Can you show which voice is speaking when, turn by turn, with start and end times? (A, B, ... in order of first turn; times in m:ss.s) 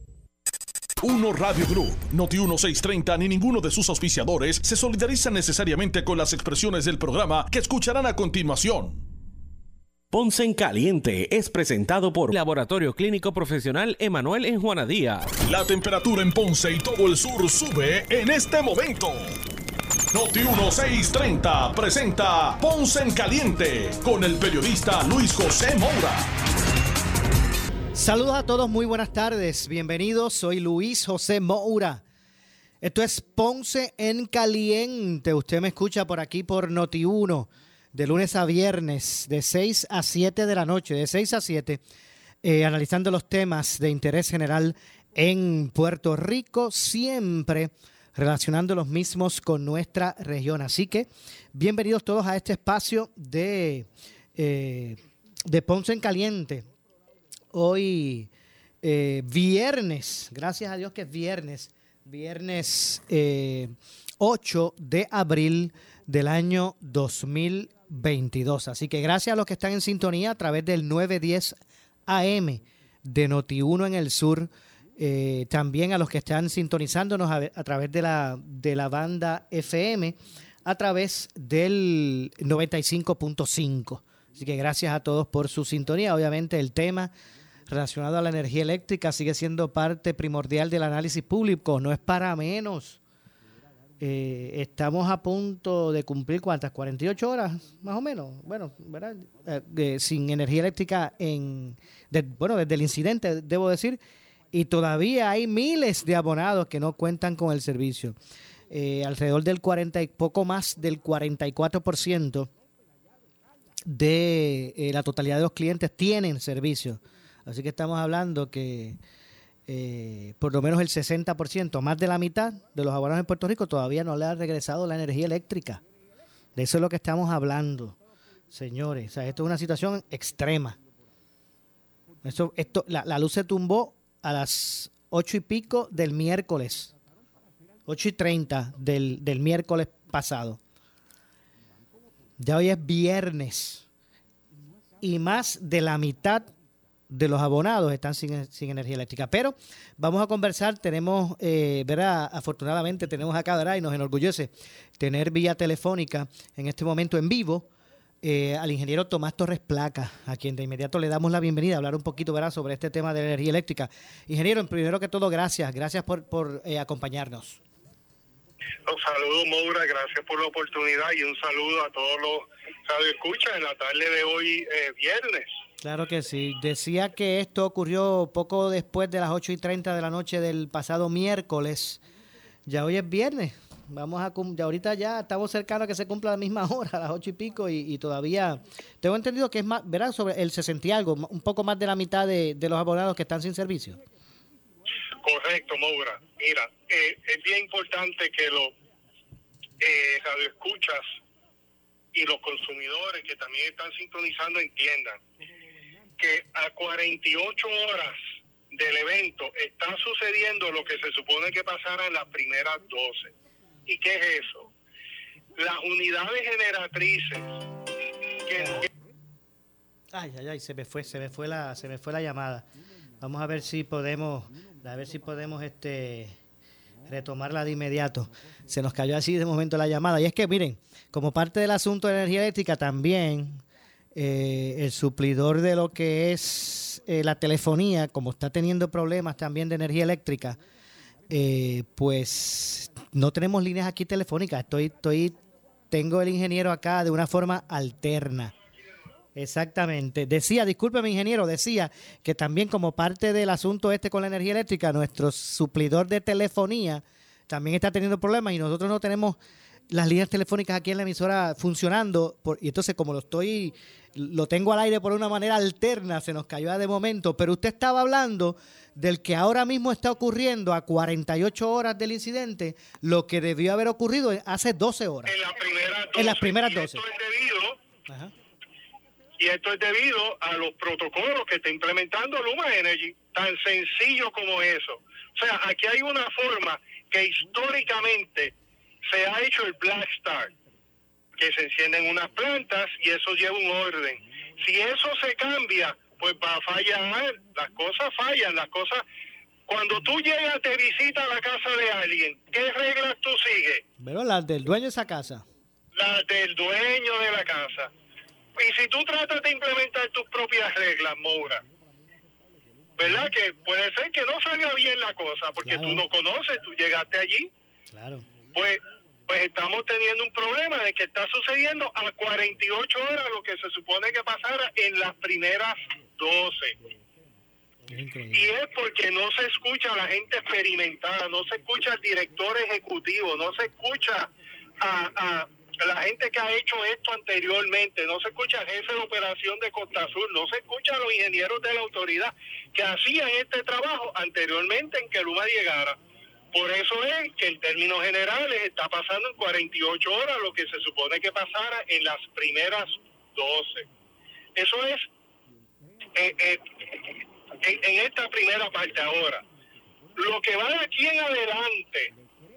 0:01.0-0:09.0 A
0:10.1-0:15.3 B
0:15.5-0:19.4 A
0:20.1-0:26.3 A
0:27.9-0:32.0 C
0:32.8-0:41.8 C
0:42.4-0:56.7 C
0:57.5-0:58.3 C
0:58.8-1:27.1 C
1:27.7-1:33.0 C
1:34.0-1:44.0 C
1:44.5-1:48.2 C
1:48.7-1:52.5 C
1:53.8-1:59.0 C
1:59.7-2:05.8 C
2:06.6-2:08.0 C
2:08.5-2:10.8 C
2:12.2-2:16.9 C
2:17.9-2:20.6 C
2:22.4-2:23.8 C
2:25.0-2:26.5 C
2:27.1-2:37.7 C
2:38.2-2:47.6 C
2:48.9-2:55.5 D
2:55.8-3:02.0 C
3:02.7-3:14.0 C
3:15.2-3:18.7 D
3:19.8-3:21.1 D
3:22.1-3:25.2 D
3:26.2-3:28.2 D
3:28.7-3:33.3 D
3:33.9-3:34.7 D
3:35.6-3:37.6 D
3:38.4-3:38.9 D
3:38.5-3:38.9 C
3:40.1-3:42.7 C
3:43.2-3:46.3 C
3:47.0-3:53.6 C
3:54.1-4:00.6 C
4:01.3-4:05.4 C
4:05.9-4:08.5 C
4:09.3-4:35.3 C
4:35.3-4:37.8 D
4:36.1-4:37.0 C
4:38.1-4:38.3 C
4:39.4-4:50.5 D
4:51.4-4:59.0 D
4:59.7-5:03.8 D
5:04.0-5:05.4 C
5:05.9-5:07.9 D
5:08.6-5:11.6 D
5:13.0-5:17.5 D
5:15.6-5:16.0 C
5:17.9-5:18.2 C
5:18.5-5:26.8 D
5:27.9-5:28.5 C
5:28.3-5:46.0 D
5:46.5-5:53.9 D
5:54.6-5:55.1 D
5:56.2-5:59.4 D
6:00.2-6:02.1 D